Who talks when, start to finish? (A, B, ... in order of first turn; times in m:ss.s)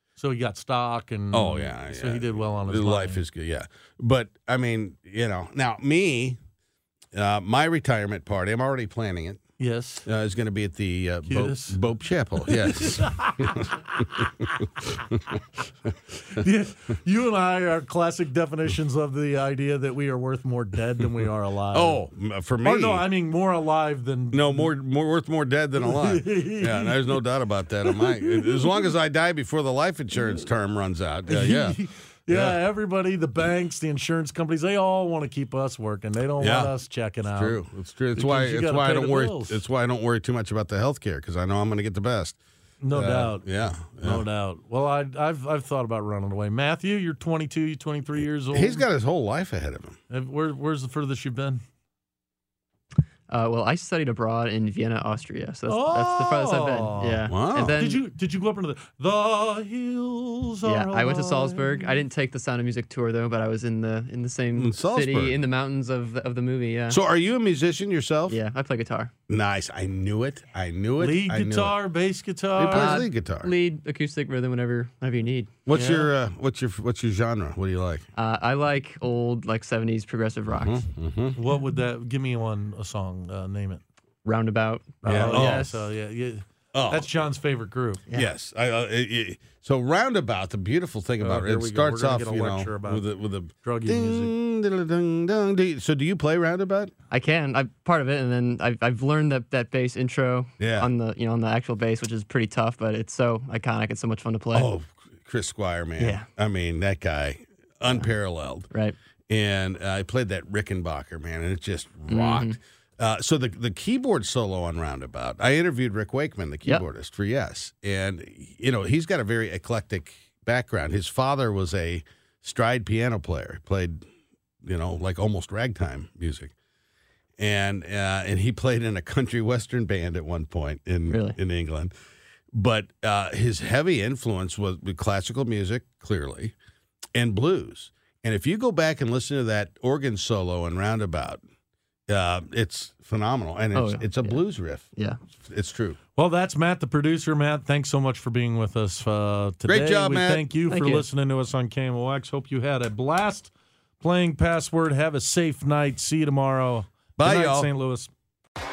0:00.2-0:03.2 A
0:01.3-0:06.4 B
0:07.1-0:09.4 B
0:09.6-0:10.1 A
0:10.1-0:15.2 B
0:11.3-0:11.8 A
0:12.5-0:13.6 A
0:16.4-0:22.0 A
0:21.7-0:23.1 B
0:22.6-0:24.7 A
0:24.3-0:31.8 B
0:25.8-0:27.2 A
0:27.9-0:28.9 A
0:31.3-0:37.6 A
0:32.3-0:32.6 B
0:36.4-0:42.4 B
0:38.2-0:39.6 A
0:42.8-0:48.9 A
0:42.9-0:44.2 B
0:48.5-0:50.0 B
0:50.1-0:51.6 A
0:53.3-0:58.0 C
0:55.7-1:02.0 A
0:57.3-0:57.8 B
1:00.6-1:07.0 C
1:04.6-1:05.4 B
1:06.9-1:08.4 B
1:08.3-1:09.1 C
1:09.3-1:11.8 B
1:11.0-1:13.1 A
1:12.6-1:13.5 B
1:12.7-1:15.6 C
1:15.7-1:18.0 B
1:15.7-1:16.1 A
1:18.2-1:20.9 C
1:20.5-1:21.4 B
1:21.4-1:23.8 A
1:24.2-1:25.8 C
1:25.0-1:25.7 B
1:25.0-1:28.1 A
1:26.7-1:27.2 B
1:28.1-1:36.9 B
1:31.2-1:33.1 A
1:33.6-1:34.3 A
1:37.1-1:44.7 C
1:40.6-1:40.9 B
1:44.5-1:48.7 B
1:46.0-1:46.3 C
1:49.3-2:04.0 B
1:52.1-1:52.6 C
2:04.6-2:06.5 B
2:07.4-2:11.9 B
2:11.1-2:11.4 C
2:12.5-2:16.5 B
2:17.2-2:21.4 B
2:22.1-2:26.0 B
2:23.7-2:24.4 C
2:26.2-2:38.1 A
2:29.7-2:30.6 B
2:30.7-2:31.1 C
2:37.2-2:37.7 B